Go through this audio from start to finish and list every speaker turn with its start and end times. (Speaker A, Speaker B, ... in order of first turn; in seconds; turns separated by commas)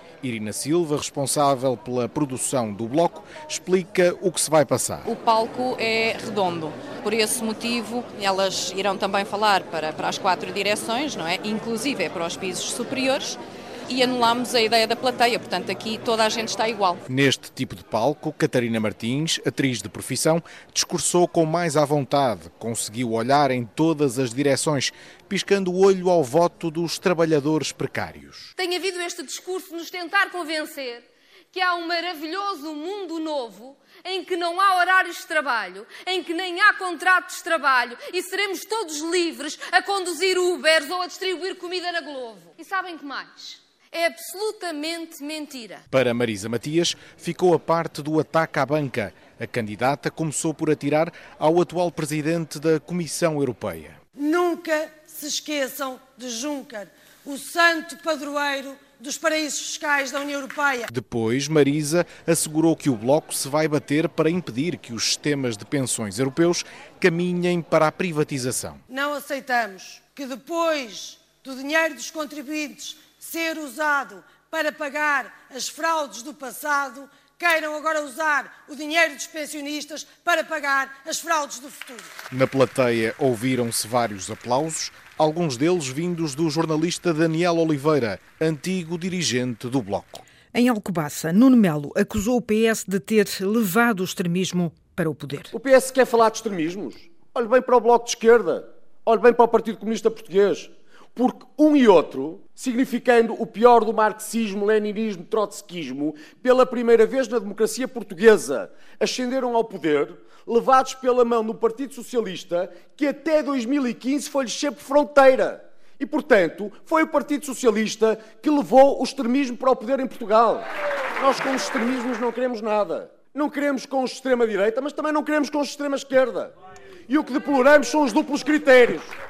Speaker A: 0.3-5.0, Speaker B: 5.1-17.0, Speaker A: 17.3-28.4, Speaker C: 28.6-45.8, Speaker A: 45.9-54.0, Speaker D: 54.2-60.9, Speaker A: 61.0-64.9, Speaker A: 65.9-66.6, Speaker A: 67.8-68.2, Speaker D: 68.9-82.0, Speaker A: 82.4-90.2, Speaker E: 90.5-95.5, Speaker F: 95.5-120.7, Speaker F: 121.2-126.5, Speaker F: 127.1-129.1